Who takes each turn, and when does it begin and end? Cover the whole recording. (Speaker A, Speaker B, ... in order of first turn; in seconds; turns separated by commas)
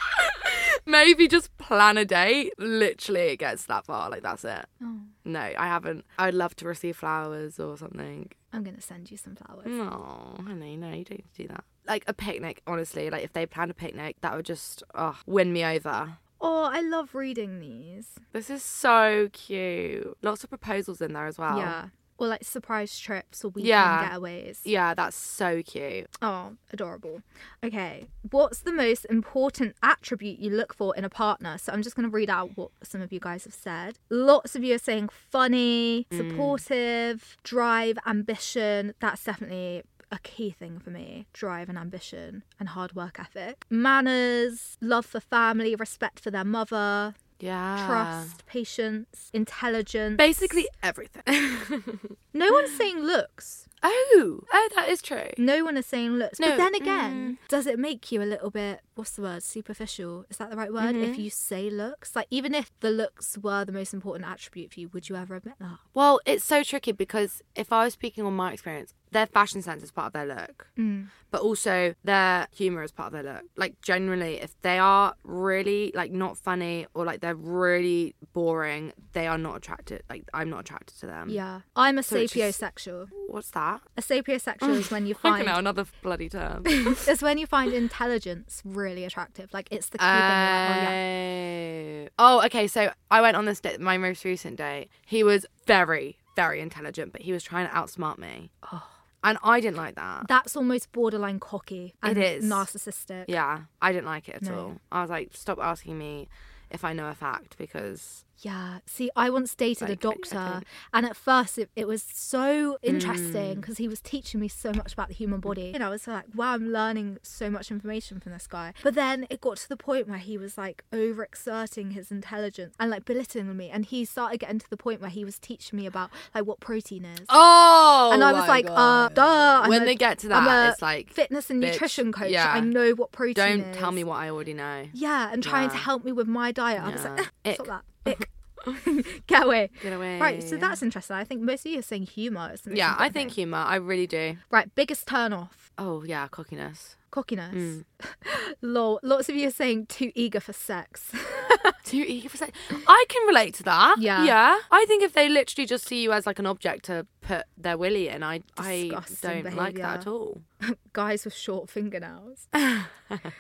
Speaker A: 0.2-4.7, Speaker B: 4.8-5.1, Speaker A: 5.2-8.3, Speaker B: 8.5-9.8, Speaker A: 9.7-16.2, Speaker B: 16.4-18.2, Speaker A: 18.3-21.8, Speaker B: 21.5-24.7, Speaker A: 23.6-24.1, Speaker A: 24.6-26.1, Speaker B: 26.2-47.2, Speaker A: 36.1-36.6, Speaker A: 47.4-48.4, Speaker B: 47.8-50.6, Speaker A: 50.2-52.1, Speaker B: 52.3-53.7, Speaker A: 53.8-55.4, Speaker B: 55.4-65.8, Speaker A: 56.4-57.4, Speaker A: 60.8-61.2, Speaker A: 66.0-70.7, Speaker B: 70.8-71.1, Speaker A: 71.3-81.4, Speaker B: 81.3-83.1, Speaker A: 82.1-82.6, Speaker A: 83.2-83.8, Speaker B: 84.0-85.6, Speaker A: 84.6-87.1, Speaker B: 86.8-91.0, Speaker A: 90.0-98.6, Speaker B: 98.7-98.9, Speaker A: 99.2-100.3, Speaker B: 100.2-103.3, Speaker A: 102.0-102.7, Speaker A: 103.3-108.2, Speaker B: 104.4-104.7, Speaker B: 108.4-127.4, Speaker A: 109.8-110.7, Speaker A: 112.9-113.7, Speaker A: 127.3-132.7, Speaker B: 128.1-134.0, Speaker A: 133.3-135.9, Speaker B: 134.9-143.3, Speaker A: 136.8-138.8, Speaker A: 139.8-140.8, Speaker A: 142.7-144.4, Speaker B: 144.5-145.7, Speaker A: 145.8-147.0, Speaker B: 147.1-151.8, Speaker A: 147.5-147.8, Speaker A: 151.8-160.4, Speaker B: 154.0-154.3, Speaker B: 158.6-160.1, Speaker B: 160.6-162.5, Speaker A: 162.6-163.3